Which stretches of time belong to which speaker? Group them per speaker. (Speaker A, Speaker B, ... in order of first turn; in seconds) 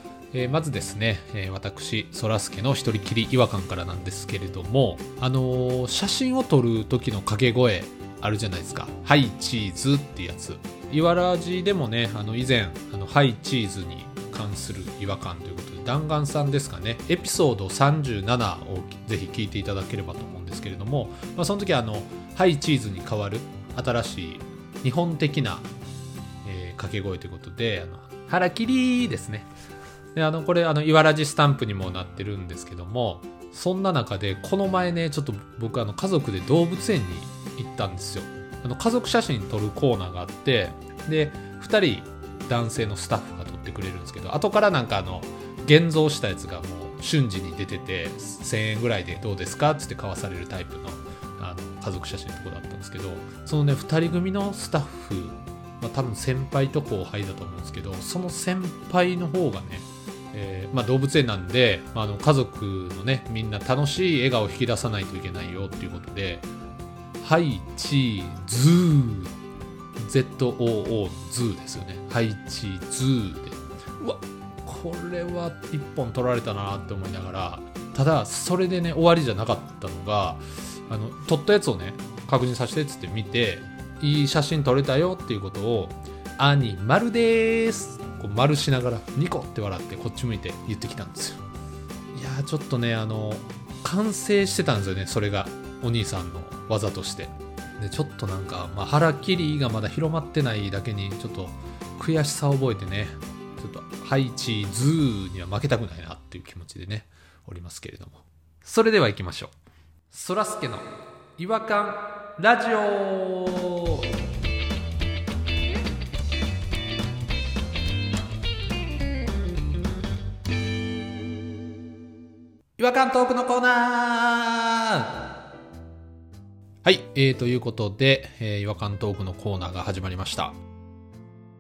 Speaker A: 0.3-25.7, 26.4-29.5, 30.1-66.5, 67.2-69.3, 70.0-91.4, 92.1-109.5, 110.1-114.0, 122.8-125.2, 126.8-130.6